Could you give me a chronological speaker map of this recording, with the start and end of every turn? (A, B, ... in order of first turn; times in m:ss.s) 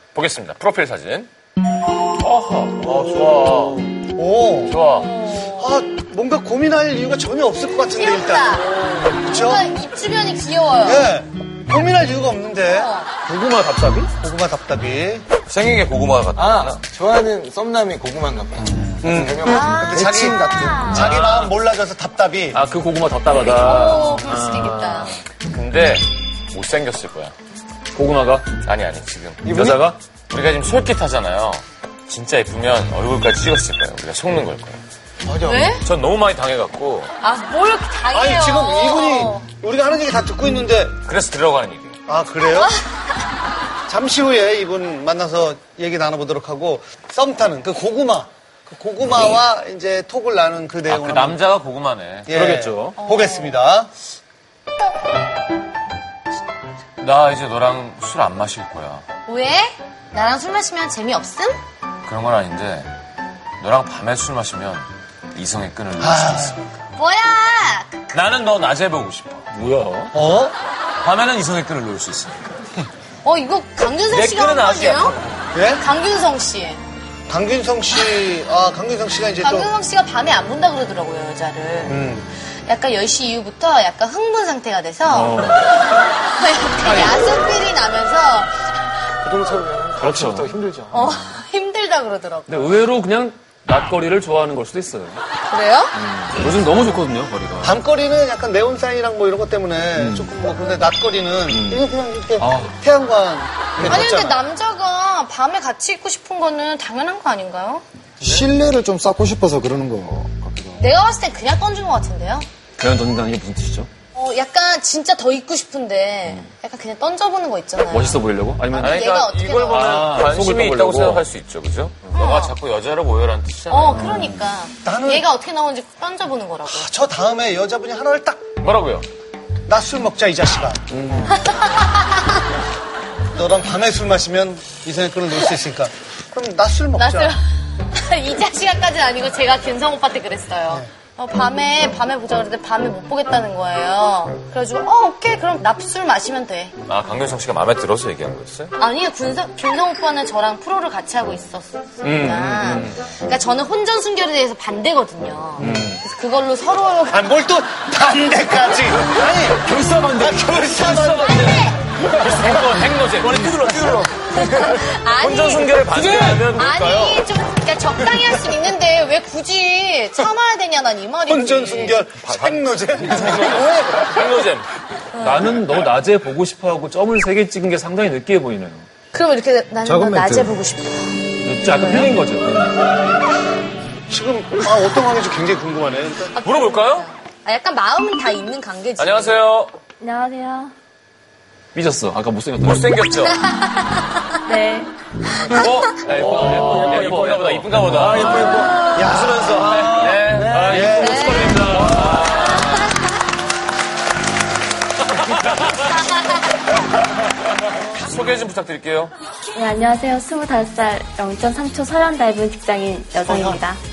0:00.1-0:01.3 A
0:02.2-0:02.6 B
0:02.6-0:03.8 A
0:04.1-0:04.8 C
0:04.7-0:05.1 A
0:04.9-0:05.8 D
0:05.6-0:09.7 C
0:07.9-0:11.1 D
0:10.8-0:12.9 C
0:12.6-0:13.1 D
0:13.2-0:14.1 B
0:14.2-0:15.3 C
0:15.5-0:16.8 A
0:16.4-0:19.8 E
0:19.0-0:22.6 C
0:19.4-0:20.0 D
0:19.6-0:20.9 F
0:20.7-0:21.0 D
0:20.9-0:21.4 B
0:21.0-0:21.5 A
0:22.5-0:25.2 B
0:23.3-0:25.2 D
0:25.5-0:27.3 A
0:27.9-0:28.6 B
0:28.6-0:34.8 A
0:29.4-0:29.8 E
0:29.5-0:30.0 B
0:35.3-0:35.6 C
0:35.4-0:35.8 D
0:35.8-0:37.1 A
0:37.2-0:39.5 D
0:38.1-0:40.9 C
0:41.0-0:41.9 A
0:42.1-0:42.7 C
0:43.9-0:51.4 C
0:50.9-0:52.3 A
0:52.3-0:53.9 C
0:52.3-0:53.0 B
0:53.0-0:53.6 D
0:57.0-0:59.0 A
0:59.3-1:01.6 D
1:02.0-1:02.9 A
1:03.6-1:06.6 A
1:06.0-1:06.6 C
1:07.0-1:08.0 D
1:08.1-1:09.4 A
1:09.5-1:10.1 B
1:10.1-1:10.5 C
1:11.0-1:12.5 A
1:13.2-1:15.2 D
1:14.1-1:15.2 A
1:15.5-1:15.8 C
1:15.7-1:16.8 D
1:17.3-1:19.7 C
1:19.4-1:22.0 D
1:21.8-1:22.2 C
1:22.6-1:25.7 D
1:25.1-1:25.7 B
1:26.2-1:28.5 D
1:26.9-1:27.3 B
1:29.2-1:31.1 E
1:30.0-1:30.6 B
1:30.9-1:32.8 D
1:32.5-1:35.2 B
1:35.5-1:35.9 D
1:35.9-1:37.8 B
1:37.6-1:44.4 C
1:39.9-1:40.3 B
1:41.5-1:41.8 B
1:42.4-1:42.7 B
1:43.8-1:47.8 D
1:48.2-1:50.8 F
1:50.8-1:52.5 D
1:52.8-1:53.9 B
1:54.1-2:00.2 D
1:57.9-1:59.1 B
1:58.8-2:04.2 A
1:59.7-2:01.2 B
2:02.1-2:02.6 D
2:03.7-2:06.9 D
2:04.8-2:05.3 C
2:06.7-2:08.4 C
2:08.6-2:09.0 A
2:09.7-2:10.9 C
2:10.9-2:11.3 B
2:11.3-2:12.2 D
2:13.4-2:17.3 C
2:17.0-2:17.4 D
2:17.9-2:26.7 D
2:26.8-2:28.7 A
2:28.8-2:37.2 D
2:32.0-2:33.0 B
2:35.6-2:36.0 B
2:37.1-2:39.6 C
2:39.6-2:44.2 B
2:40.2-2:41.6 C
2:40.7-2:41.8 D
2:42.1-2:44.1 A
2:44.0-2:52.0 D
2:45.2-2:47.3 A
2:46.0-2:46.3 B
2:51.3-2:54.4 C
2:52.2-2:54.7 A
2:55.1-2:55.5 D
2:55.2-2:58.8 B
2:59.1-3:01.2 D
2:59.8-3:00.5 F
3:01.4-3:02.8 B
3:04.1-3:06.4 C
3:06.4-3:07.1 A
3:06.4-3:09.4 D
3:09.0-3:09.7 A
3:10.0-3:10.7 G
3:11.7-3:13.0 B
3:12.6-3:13.4 A
3:13.3-3:13.7 D
3:14.4-3:14.9 G
3:15.5-3:18.6 B
3:16.0-3:22.8 A
3:16.4-3:20.8 E
3:18.8-3:21.6 C
3:20.5-3:22.4 B
3:20.9-3:21.8 D
3:22.5-3:22.8 D
3:26.0-3:26.3 D
3:27.8-3:29.1 A
3:29.5-3:33.8 G
3:33.2-3:33.6 E